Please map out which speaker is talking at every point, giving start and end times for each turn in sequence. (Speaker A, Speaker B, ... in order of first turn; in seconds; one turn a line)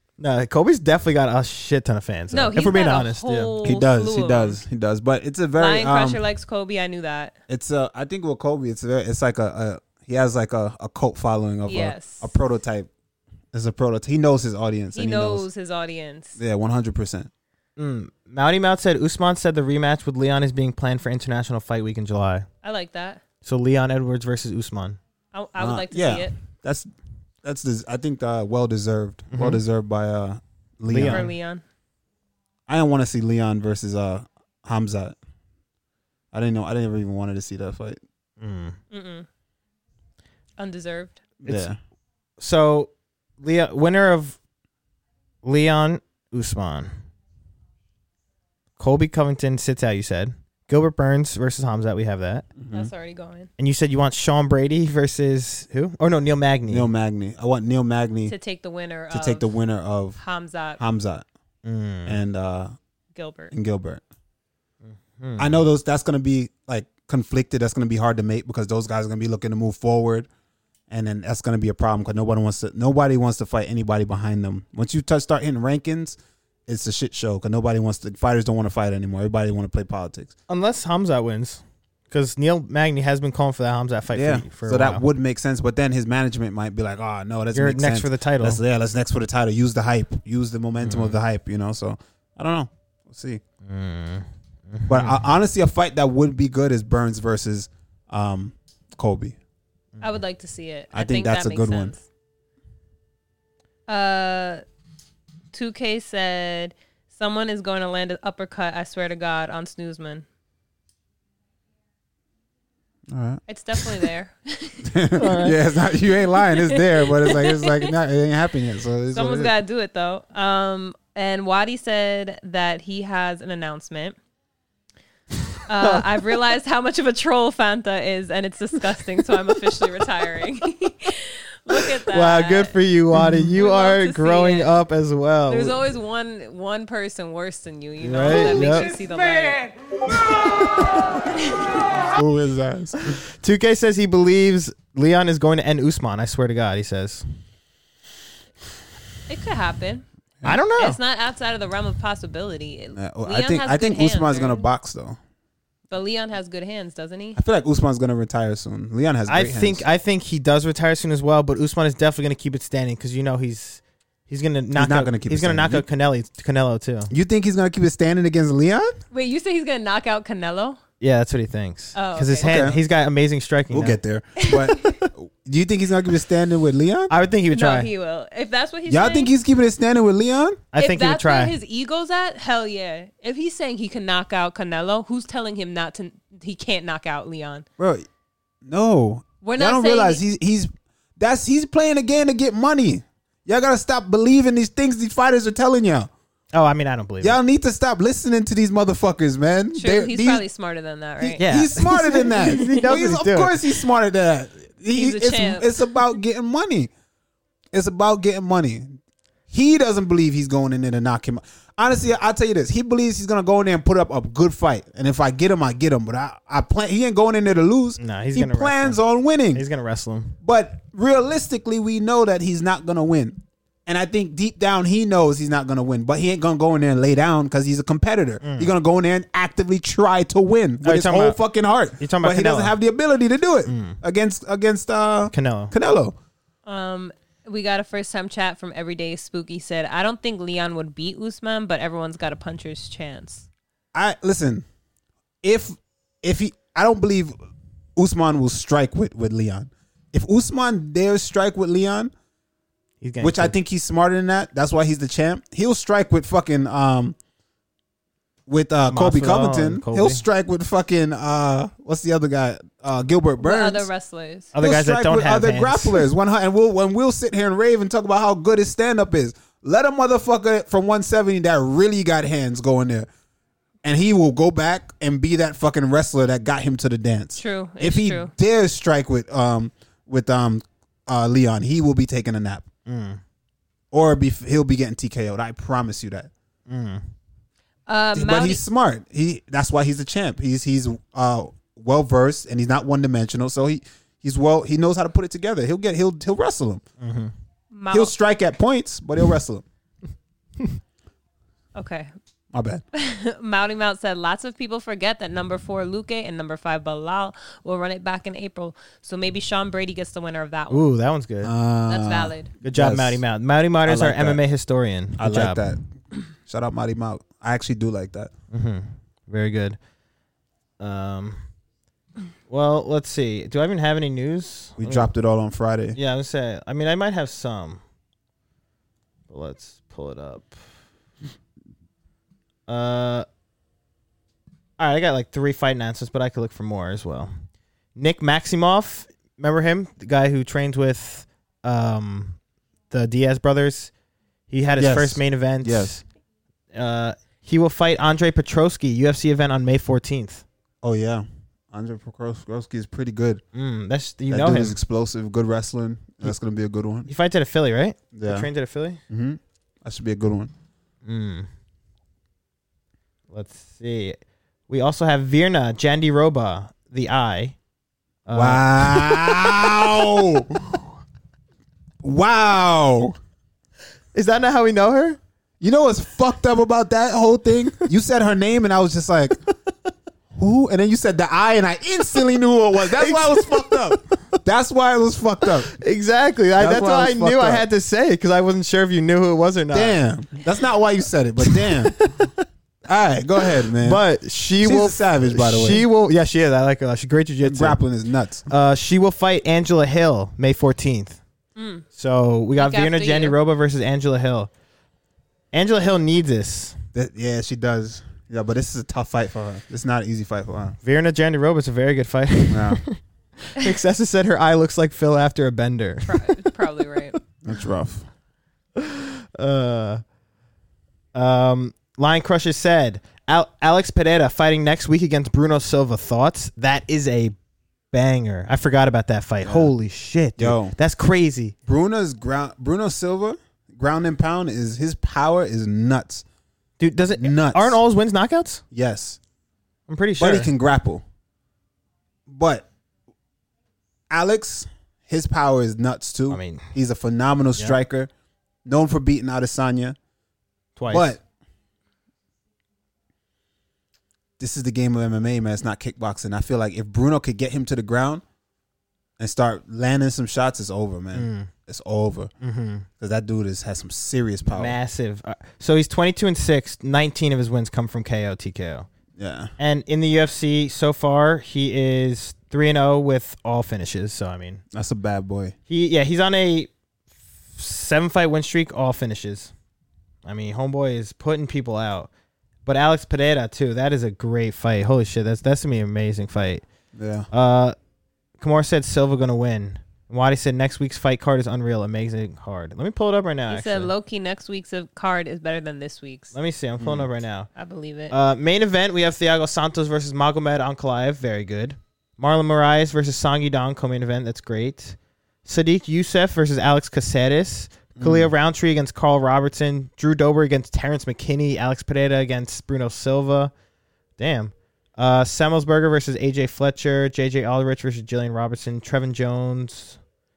Speaker A: 0.2-3.5
Speaker B: 2.3-4.6
Speaker C: 3.6-6.2
Speaker B: 5.6-7.4
Speaker C: 7.5-12.9
Speaker B: 11.7-12.3
Speaker C: 13.5-15.5
Speaker B: 14.9-16.4
Speaker C: 16.4-17.3
Speaker A: 17.8-22.5
Speaker B: 22.6-23.2
Speaker A: 23.4-25.0
Speaker B: 25.3-26.4
Speaker C: 25.6-26.9
Speaker C: 27.4-31.3
Speaker A: 29.3-29.6
Speaker A: 30.9-31.3
Speaker B: 31.1-31.6
Speaker C: 32.7-35.2
Speaker C: 36.3-38.0
Speaker A: 38.4-38.8
Speaker B: 38.9-39.3
Speaker B: 40.6-41.2
Speaker C: 41.4-41.8
Speaker A: 42.4-44.4
Speaker A: 45.4-46.9
Speaker A: 48.8-52.5
Speaker C: 52.6-52.9
Speaker B: 52.7-53.5
Speaker A: 53.6-56.9
Speaker C: 56.7-58.4
Speaker B: 58.3-59.5
Speaker C: 59.1-60.2
Speaker B: 60.2-60.8
Speaker C: 60.8-61.3
Speaker A: 61.6-62.2
Speaker C: 62.1-62.7
Speaker B: 63.1-63.5
Speaker C: 63.5-64.0
Speaker A: 65.2-65.6
Speaker C: 65.4-70.3
Speaker C: 70.9-80.3
Speaker A: 80.5-85.0
Speaker C: 84.1-93.4
Speaker A: 87.5-88.6
Speaker A: 90.8-91.2
Speaker A: 93.7-95.2
Speaker C: 94.9-99.4
Speaker B: 100.0-102.0
Speaker C: 100.9-102.0
Speaker B: 103.9-104.6
Speaker B: 105.5-110.2
Speaker C: 113.1-114.1
Speaker B: 113.5-115.2
Speaker C: 114.8-119.5
Speaker A: 115.2-115.6
Speaker B: 116.0-117.9
Speaker B: 119.1-124.2
Speaker B: 125.7-132.8
Speaker A: 132.1-135.8
Speaker B: 133.6-134.8
Speaker B: 135.5-139.7
Speaker A: 138.0-138.9
Speaker B: 141.4-141.7
Speaker C: 142.0-143.2
Speaker A: 143.1-147.2
Speaker B: 149.3-150.1
Speaker A: 150.4-151.0
Speaker B: 150.8-154.7
Speaker C: 153.0-155.2
Speaker B: 155.9-157.4
Speaker C: 157.4-159.8
Speaker A: 159.3-167.1
Speaker C: 164.8-165.9
Speaker C: 167.1-168.9
Speaker B: 169.1-170.8
Speaker A: 171.0-174.0
Speaker B: 171.9-172.7
Speaker C: 172.4-172.8
Speaker C: 173.7-177.1
Speaker B: 174.4-175.0
Speaker A: 177.1-177.9
Speaker B: 177.5-179.3
Speaker C: 178.9-180.6
Speaker A: 180.7-181.6
Speaker B: 180.8-187.7
Speaker C: 187.8-188.1
Speaker C: 188.7-196.1
Speaker B: 189.4-190.2
Speaker A: 196.5-197.4
Speaker C: 197.2-200.4
Speaker B: 199.7-201.4
Speaker C: 201.2-206.9
Speaker A: 201.4-203.7
Speaker B: 202.2-202.9
Speaker B: 204.9-206.1
Speaker C: 207.7-209.0
Speaker C: 209.5-219.6
Speaker A: 218.0-219.0
Speaker A: 219.5-220.4
Speaker C: 220.4-236.2
Speaker A: 228.4-228.7
Speaker A: 230.8-231.4
Speaker A: 232.0-232.8
Speaker A: 233.7-234.0
Speaker A: 235.3-235.7
Speaker B: 236.7-243.5
Speaker C: 243.9-244.7
Speaker C: 245.4-247.3
Speaker C: 248.0-252.1
Speaker A: 253.0-253.6
Speaker C: 253.2-257.2
Speaker C: 258.5-263.9
Speaker A: 258.9-260.2
Speaker B: 263.4-264.5
Speaker A: 264.5-266.1
Speaker C: 264.6-273.1
Speaker C: 273.8-282.7
Speaker B: 277.4-278.3
Speaker A: 282.9-283.2
Speaker C: 283.9-286.3
Speaker A: 286.7-287.0
Speaker B: 287.9-288.6
Speaker C: 288.1-296.8
Speaker A: 297.0-297.3
Speaker B: 297.7-298.1
Speaker C: 297.9-299.6
Speaker B: 301.8-302.1
Speaker C: 302.5-302.8
Speaker B: 302.9-310.9
Speaker A: 310.7-311.5
Speaker C: 311.4-313.2
Speaker B: 311.9-312.5
Speaker A: 312.6-315.7
Speaker C: 313.9-314.4
Speaker C: 315.2-315.9
Speaker C: 316.4-318.3
Speaker A: 318.5-319.8
Speaker A: 320.8-321.4
Speaker A: 322.5-325.1
Speaker C: 324.8-326.0
Speaker A: 325.9-327.8
Speaker A: 329.3-330.6
Speaker A: 332.7-333.3
Speaker A: 334.8-337.3
Speaker A: 338.0-342.4
Speaker A: 342.9-343.9
Speaker A: 344.5-346.0
Speaker C: 344.8-346.0
Speaker A: 346.7-350.4
Speaker C: 350.8-353.4
Speaker A: 353.5-354.8
Speaker C: 354.3-357.1
Speaker A: 357.1-359.0
Speaker C: 358.1-358.5
Speaker C: 359.1-360.5
Speaker A: 361.1-361.5
Speaker A: 363.3-364.2
Speaker A: 364.7-367.6
Speaker A: 368.3-369.9
Speaker C: 368.3-370.9
Speaker C: 372.0-373.2
Speaker A: 374.1-375.2
Speaker C: 375.6-379.4
Speaker C: 380.3-385.7
Speaker A: 382.9-384.0
Speaker A: 385.7-390.0
Speaker C: 386.6-387.6
Speaker C: 389.7-392.1
Speaker A: 391.4-392.4
Speaker C: 392.9-394.0
Speaker A: 393.7-397.8
Speaker C: 394.6-395.9
Speaker C: 397.4-398.5
Speaker A: 398.5-401.2
Speaker B: 401.6-401.9
Speaker A: 401.9-404.5
Speaker B: 402.6-403.4
Speaker A: 405.5-406.8
Speaker C: 406.9-410.8
Speaker A: 410.8-416.5
Speaker C: 412.5-412.8
Speaker B: 416.1-417.2
Speaker C: 417.4-418.1
Speaker A: 418.8-420.0
Speaker A: 421.1-427.4
Speaker A: 427.9-431.6
Speaker C: 429.4-429.7
Speaker C: 430.4-430.8
Speaker C: 431.7-436.2
Speaker A: 436.8-438.6
Speaker C: 437.1-437.8
Speaker C: 438.7-439.2
Speaker A: 439.9-440.5
Speaker C: 440.2-441.0
Speaker C: 442.3-442.7
Speaker C: 444.1-448.1
Speaker A: 446.3-446.7
Speaker C: 448.6-450.0
Speaker A: 450.8-451.1
Speaker C: 450.9-451.2
Speaker C: 454.4-458.2
Speaker C: 459.2-462.3
Speaker A: 461.1-461.5
Speaker A: 462.4-462.9
Speaker C: 463.0-464.8
Speaker A: 464.5-468.9
Speaker C: 469.2-469.5
Speaker A: 469.6-474.6
Speaker C: 474.7-475.6
Speaker A: 475.7-476.7
Speaker A: 477.6-479.5
Speaker A: 480.2-482.1
Speaker A: 482.7-486.6
Speaker C: 486.9-487.3
Speaker A: 487.3-487.8
Speaker A: 488.4-493.9
Speaker B: 493.5-496.4
Speaker A: 496.3-497.5
Speaker C: 496.8-497.1
Speaker B: 497.6-498.1
Speaker A: 498.1-513.5
Speaker C: 508.0-508.3
Speaker A: 514.2-520.0